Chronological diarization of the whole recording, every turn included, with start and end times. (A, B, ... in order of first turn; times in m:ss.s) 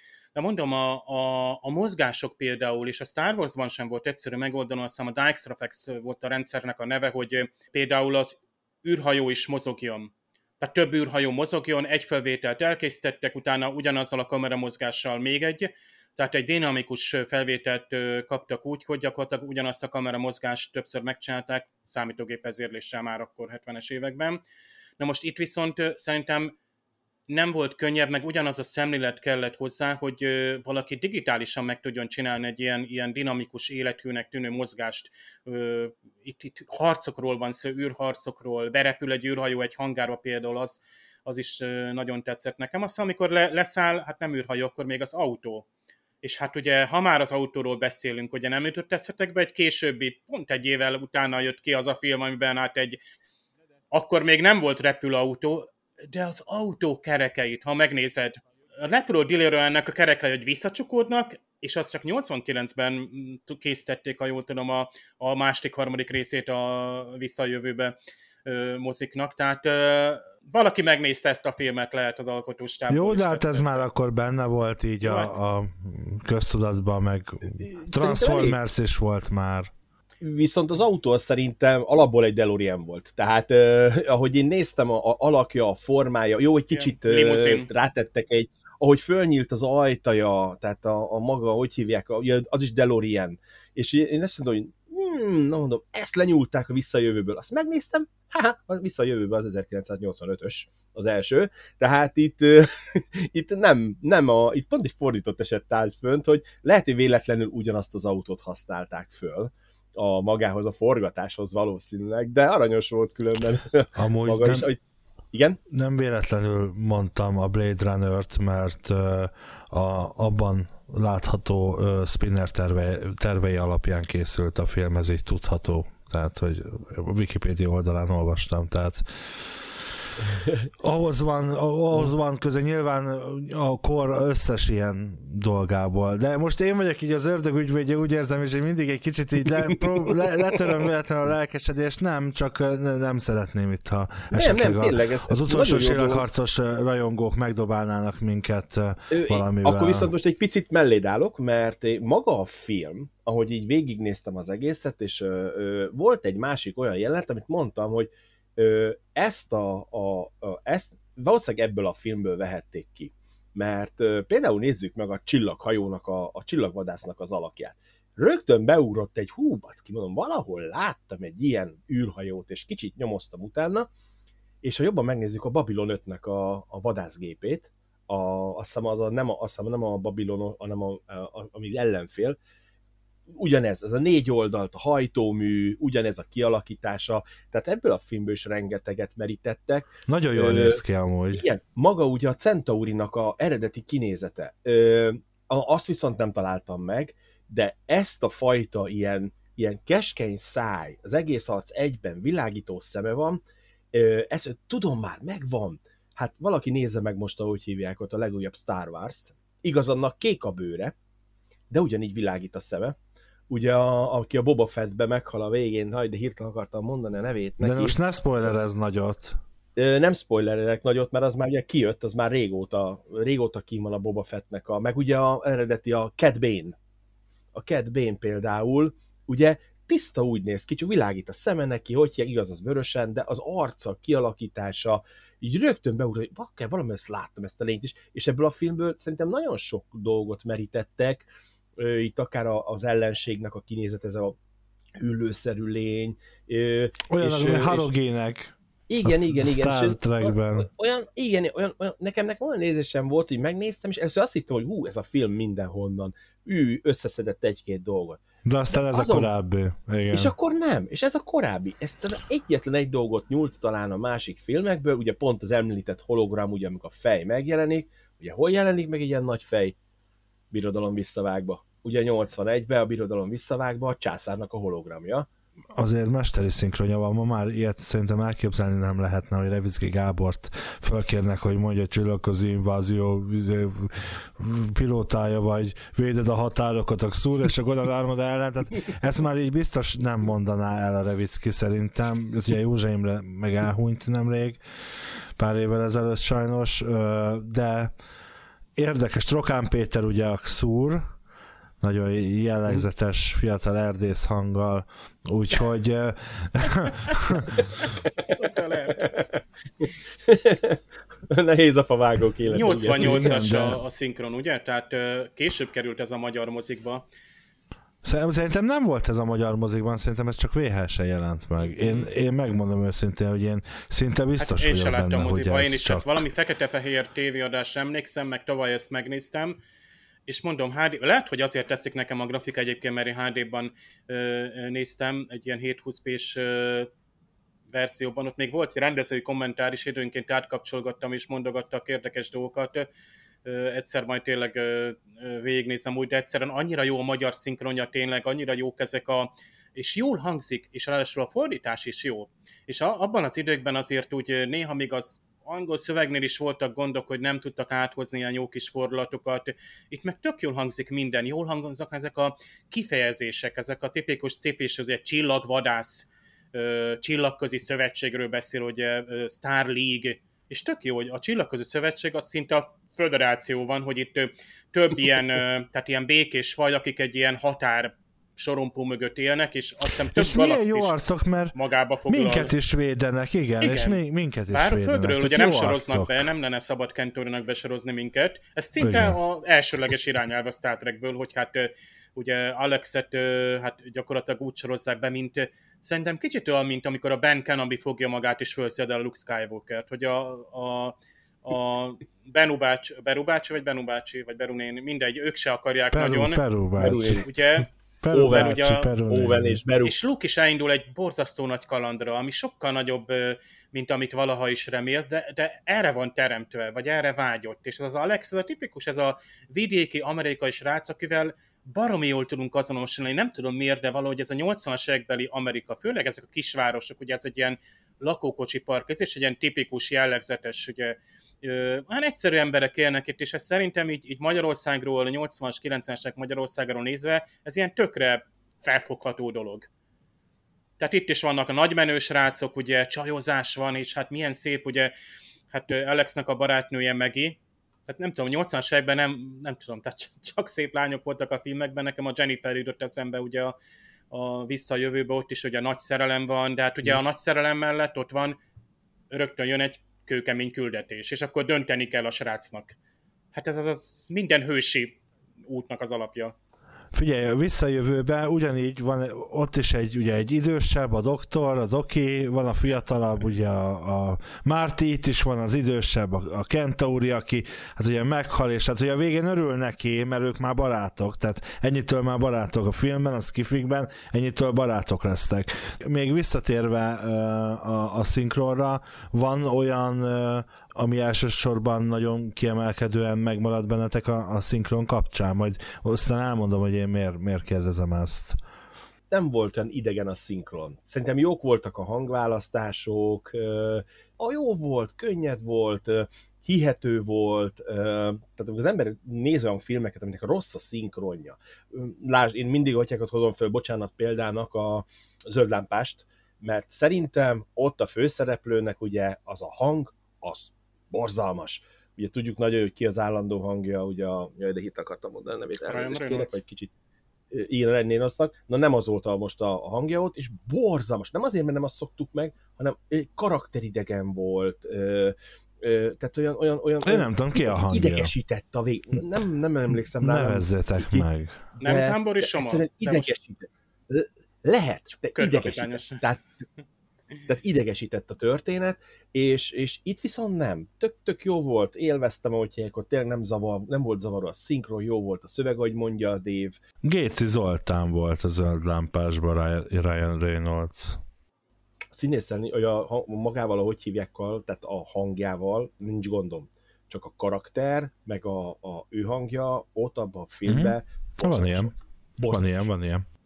0:00.4-0:24.4 A
0:25.0-0:26.5 A
0:27.3-0:45.7 A
0:46.2-0:53.0 A
0:53.9-1:08.0 A
1:08.5-1:13.9 A
1:12.9-1:19.7 B
1:15.0-1:15.3 A
1:17.6-1:18.6 C
1:20.2-1:54.8 C
1:26.7-1:27.7 A
1:54.0-1:54.7 B
1:55.3-1:55.6 C
1:55.7-2:09.9 B
2:10.8-2:30.1 B
2:24.3-2:26.2 C
2:29.1-2:53.9 C
2:54.6-3:02.4 C
3:03.3-3:10.8 C
3:10.1-3:11.4 B
3:11.3-3:23.4 C
3:23.9-3:30.9 C
3:31.7-3:33.0 C
3:33.5-3:38.0 C
3:37.6-3:39.4 B
3:39.8-3:46.8 C
3:47.5-4:04.4 C
4:05.0-4:07.9 C
4:07.1-4:10.7 B
4:08.9-4:19.3 C
4:18.5-4:20.3 B
4:20.1-4:29.8 C
4:30.5-4:35.3 C
4:35.8-4:54.6 B
4:55.4-4:57.9 B
4:58.8-5:01.0 B
5:01.8-5:07.7 B
5:08.3-5:09.3 A
5:09.0-5:09.3 C
5:10.3-5:13.4 C
5:12.5-5:17.0 A
5:12.9-5:13.8 B
5:18.0-5:26.2 B
5:21.6-5:22.1 A
5:24.4-5:29.6 A
5:30.3-5:36.9 A
5:37.7-5:42.9 A
5:43.4-6:21.0 A
6:20.1-6:21.6 B
6:21.5-6:22.5 A
6:22.1-6:26.3 B
6:23.6-6:24.0 A
6:24.5-6:46.4 A
6:28.8-6:29.2 B
6:45.9-6:49.6 B
6:46.8-6:47.3 C
6:47.2-6:47.7 A
6:48.1-6:50.0 C
6:48.3-6:48.9 A
6:49.8-7:19.7 A
7:20.8-7:24.9 A
7:25.5-7:33.6 A
7:34.1-7:38.4 A
7:39.1-7:42.8 A
7:43.3-7:46.3 A
7:46.9-8:18.4 B
8:19.1-8:46.7 C
8:45.7-8:46.4 A
8:47.3-9:01.1 C
8:56.8-8:58.1 B
9:00.0-9:01.4 B
9:01.6-9:03.1 A
9:01.6-9:06.2 C
9:05.1-9:06.0 A
9:07.3-9:16.6 C
9:16.8-9:21.0 B
9:21.9-9:32.7 C
9:30.4-9:31.7 B
9:32.3-9:33.1 B